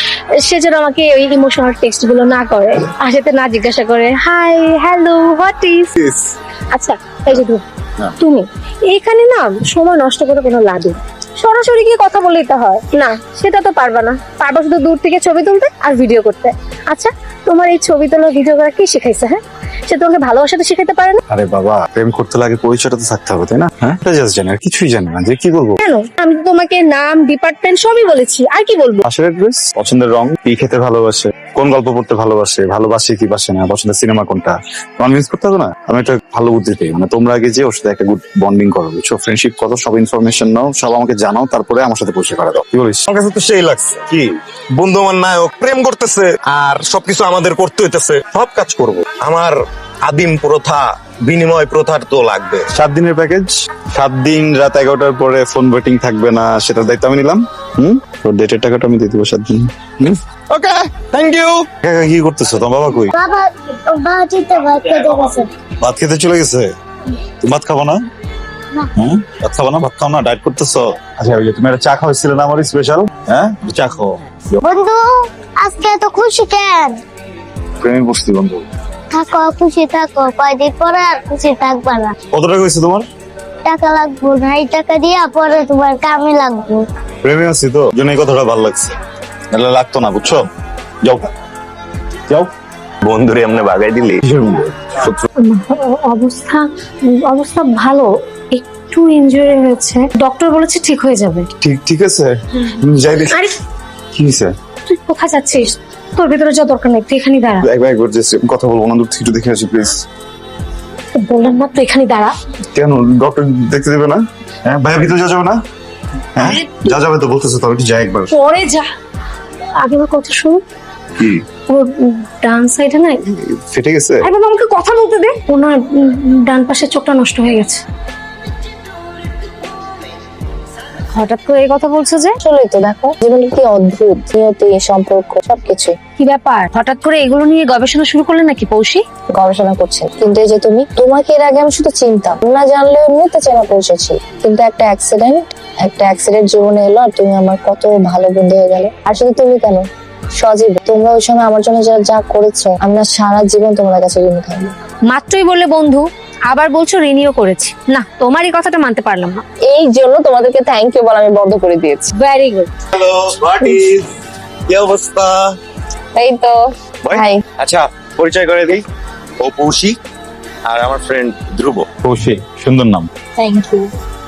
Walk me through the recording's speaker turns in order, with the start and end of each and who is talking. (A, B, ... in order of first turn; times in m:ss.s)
0:00.4-0:05.9 A
0:06.7-0:07.6 A
0:08.2-0:21.2 A
0:21.3-0:25.8 B
0:25.8-0:29.0 A
0:29.0-0:43.0 B
0:43.1-0:49.5 C
0:50.0-0:52.7 C
0:52.7-1:00.2 B
1:00.5-1:01.7 C
1:01.8-1:03.1 B
1:03.1-1:05.5 D
1:05.8-1:06.7 B
1:07.4-1:08.0 B
1:09.0-1:14.6 B
1:14.6-1:15.0 D
1:15.6-1:16.9 D
1:17.8-1:18.6 B
1:19.1-1:22.1 D
1:22.3-1:23.0 B
1:23.6-1:26.8 D
1:27.2-1:28.9 B
1:29.5-1:30.4 B
1:33.0-1:34.2 C
1:34.2-1:35.2 B
1:35.4-1:36.6 A
1:37.3-1:41.5 A
1:41.6-1:42.3 B
1:42.8-1:43.4 B
1:44.1-1:44.5 B
1:44.9-1:47.6 A
1:47.6-1:50.0 B
1:51.2-1:52.3 A
1:52.8-1:55.6 B
1:56.4-1:58.3 B
1:56.4-1:56.9 A
1:58.3-1:58.8 A
1:59.8-2:00.6 A
2:01.7-2:03.2 A
2:03.3-2:04.2 B
2:04.2-2:07.8 A
2:11.1-2:12.4 A
2:12.4-2:15.9 E
2:16.2-2:19.0 A
2:19.3-2:29.8 E
2:30.4-2:34.7 E
2:35.1-2:39.4 A
2:39.7-2:42.1 E
2:42.1-2:42.7 A
2:42.9-2:44.1 C
2:44.7-2:45.4 C
2:46.1-2:46.5 E
2:47.1-2:47.4 E
2:47.2-2:48.8 C
2:49.4-2:49.9 C
2:50.7-2:51.8 C
2:52.0-2:53.1 B
2:53.4-2:53.8 E